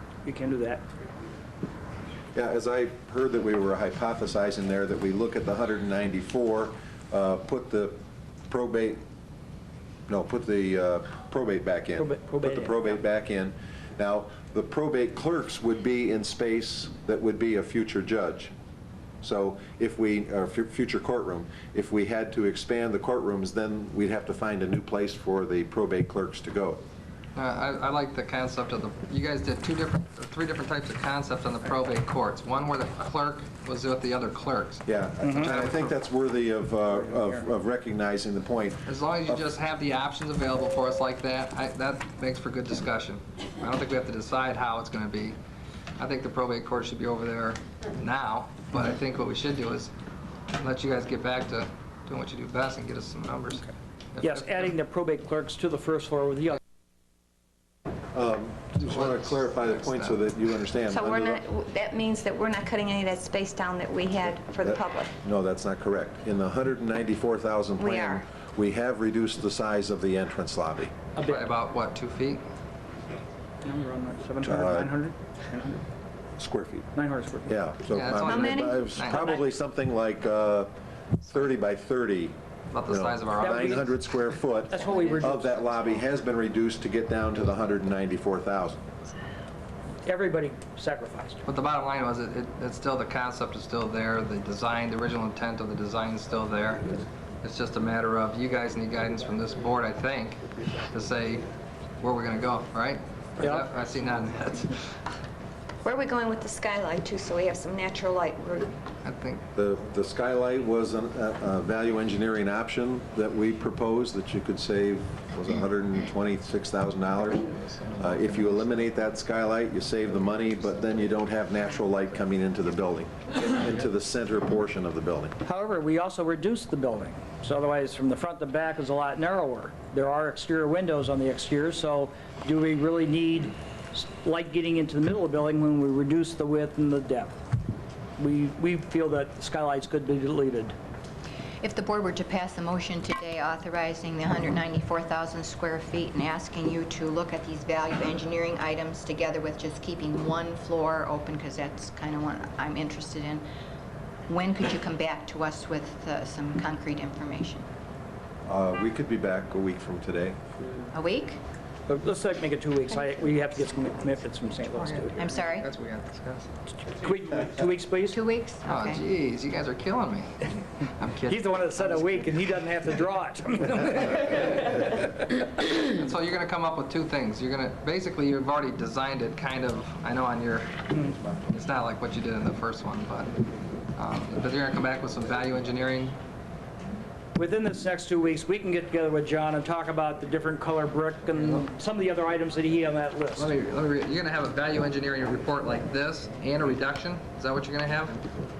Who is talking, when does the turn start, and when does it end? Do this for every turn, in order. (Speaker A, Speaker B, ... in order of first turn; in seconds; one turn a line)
Speaker A: 0.2-0.8
Speaker B: 2.4-8.0
Speaker B: 8.5-9.0
Speaker B: 10.1-18.5
Speaker A: 12.0-12.9
Speaker B: 19.2-26.8
Speaker C: 27.4-35.9
Speaker B: 34.9-38.8
Speaker A: 35.2-35.5
Speaker C: 38.9-45.4
Speaker C: 46.0-49.9
Speaker C: 50.6-54.7
Speaker A: 54.2-56.6
Speaker B: 58.1-61.4
Speaker C: 58.8-60.2
Speaker D: 60.9-65.1
Speaker B: 64.6-70.9
Speaker D: 67.8-68.2
Speaker A: 71.2-71.5
Speaker C: 71.2-72.4
Speaker A: 73.6-75.8
Speaker B: 74.4-74.9
Speaker B: 76.4-76.9
Speaker A: 76.9-77.5
Speaker B: 77.5-80.7
Speaker C: 77.9-79.4
Speaker D: 78.3-78.8
Speaker B: 81.2-82.4
Speaker C: 82.7-84.0
Speaker B: 82.9-88.8
Speaker A: 83.4-83.9
Speaker A: 84.7-85.8
Speaker A: 90.0-91.4
Speaker C: 91.5-101.5
Speaker C: 102.0-105.0
Speaker A: 103.4-103.7
Speaker D: 105.8-108.7
Speaker C: 109.0-109.4
Speaker B: 109.5-125.3
Speaker C: 117.6-118.8
Speaker A: 125.4-137.4
Speaker A: 138.2-140.8
Speaker E: 141.6-153.4
Speaker E: 154.3-157.7
Speaker B: 158.5-160.4
Speaker E: 160.9-161.4
Speaker A: 161.9-165.4
Speaker E: 165.1-165.7
Speaker C: 165.5-166.5
Speaker A: 166.7-168.2
Speaker E: 168.1-169.0
Speaker C: 168.7-172.4
Speaker A: 171.3-175.9
Speaker C: 175.9-183.4
Speaker C: 184.0-186.2
Speaker A: 187.4-193.5
Speaker C: 191.4-191.6
Speaker C: 193.4-198.2